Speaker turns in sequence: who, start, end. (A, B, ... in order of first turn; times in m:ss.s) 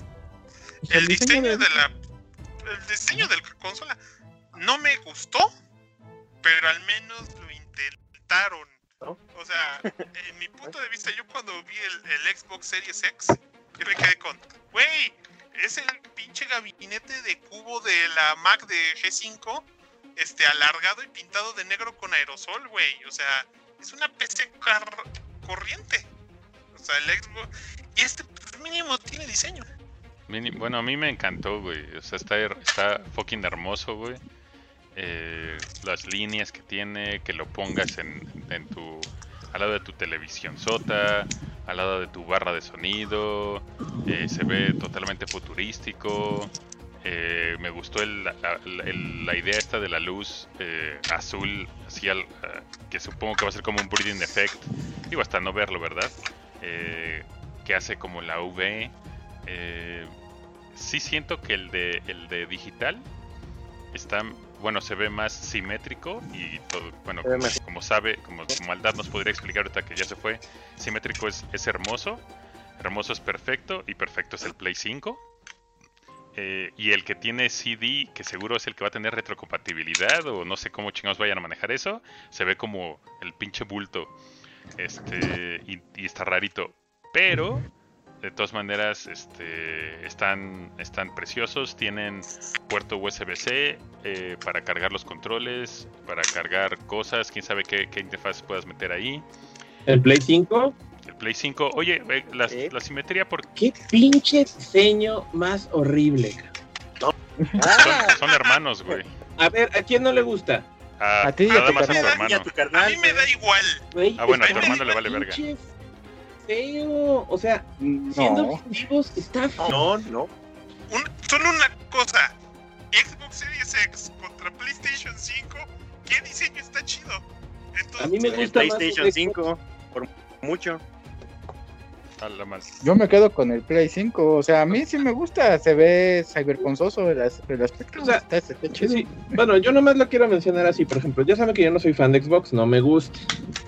0:00.8-0:01.9 A
0:00.9-0:01.7 B
0:02.6-0:04.0 A
0:04.5-0:05.5 A
0:06.4-0:08.8 A
0:09.3-0:26.1 A
0:26.7-0:29.7 A
0:30.3-0:34.2 C
0:34.9-0:46.5 C
0:47.0-0:58.9 C
0:59.4-1:00.1 C
1:00.7-1:03.0 C
1:03.9-1:12.2 C
1:07.2-1:07.6 D
1:12.8-1:15.2 C
1:16.3-1:24.1 C
1:24.8-1:27.7 C
1:28.2-1:39.2 C
1:39.9-1:40.8 E
1:41.0-1:43.5 C
1:43.6-1:46.5 E
1:47.0-1:48.2 D
1:47.7-1:49.1 C
1:47.8-1:48.5 A
1:49.4-1:50.7 E
1:51.0-1:52.5 C
1:51.2-1:52.2 B
1:51.8-1:53.3 D
1:52.7-1:53.8 A
1:53.9-1:55.7 E
1:54.2-1:55.4 C
1:54.4-1:55.0 A
1:56.4-1:59.8 E
1:57.8-1:58.6 B
1:59.6-2:00.3 D
2:00.9-2:02.3 A
2:02.9-2:08.5 A
2:08.0-2:09.3 E
2:08.3-2:10.8 D
2:12.2-2:12.7 C
2:12.8-2:19.4 B
2:18.8-2:23.3 E